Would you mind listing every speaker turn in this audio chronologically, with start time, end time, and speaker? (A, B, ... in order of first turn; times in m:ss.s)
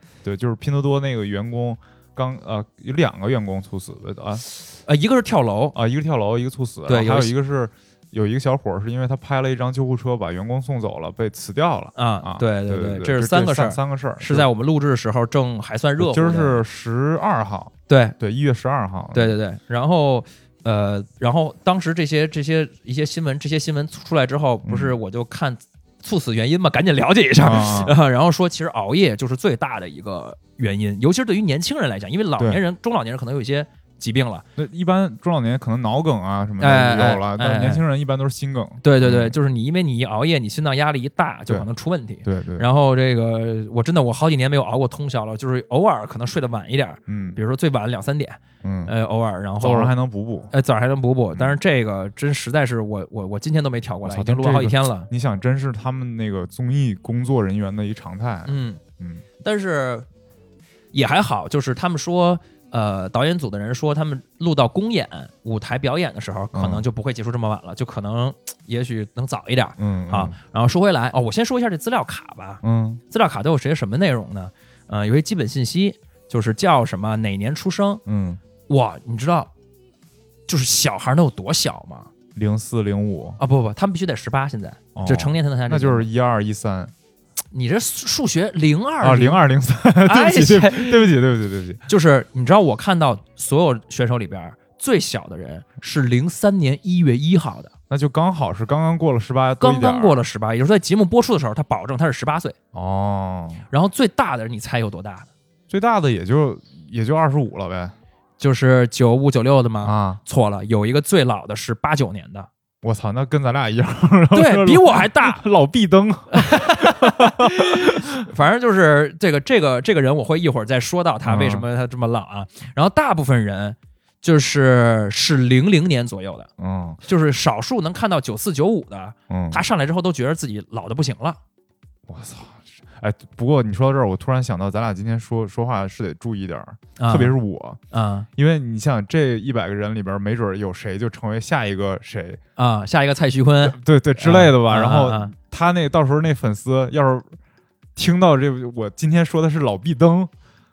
0:00.2-0:04.4 A
0:04.7-0:05.8 B
0:05.7-0:14.5 A
0:06.8-0:07.3 B
0:11.9-0:16.6 B
0:16.0-0:19.4 A
0:17.9-0:18.2 B
0:19.1-0:34.4 B
0:24.6-0:24.9 A
0:27.4-0:28.0 A
0:34.6-0:39.4 A
0:36.6-0:37.8 B
0:38.8-0:49.9 B
0:42.2-0:42.7 A
0:47.1-0:47.4 A
0:48.6-0:48.9 A
0:49.6-0:50.5 A
0:50.5-0:55.1 B
0:51.3-0:51.6 A
0:54.0-0:59.2 A
0:58.4-0:58.8 B
0:59.4-1:00.0 B
1:00.9-1:18.0 B
1:06.5-1:06.8 A
1:09.8-1:10.4 A
1:12.6-1:13.0 A
1:18.0-1:18.4 A
1:18.7-1:19.5 B
1:20.5-1:22.1 B
1:22.3-1:23.4 A
1:23.4-1:26.1 B
1:24.9-1:26.9 A
1:27.5-1:29.4 B
1:29.0-1:31.8 A
1:30.0-1:31.1 B
1:31.9-1:37.7 B
1:37.9-1:40.2 A
1:39.6-1:42.6 B
1:42.7-1:43.6 A
1:43.7-1:45.3 B
1:45.7-1:47.9 A
1:48.4-1:52.5 B
1:49.8-1:50.2 A
1:52.8-1:58.0 A
1:54.3-1:55.4 B
1:56.3-2:06.5 B
2:01.2-2:01.6 A
2:06.6-2:07.0 A
2:07.0-2:11.4 B
2:09.3-2:09.6 A
2:12.1-2:17.8 A
2:17.0-2:17.3 B
2:17.9-2:18.3 B
2:18.4-2:22.4 A
2:22.6-2:25.3 B
2:23.6-2:27.4 A
2:28.0-2:30.3 A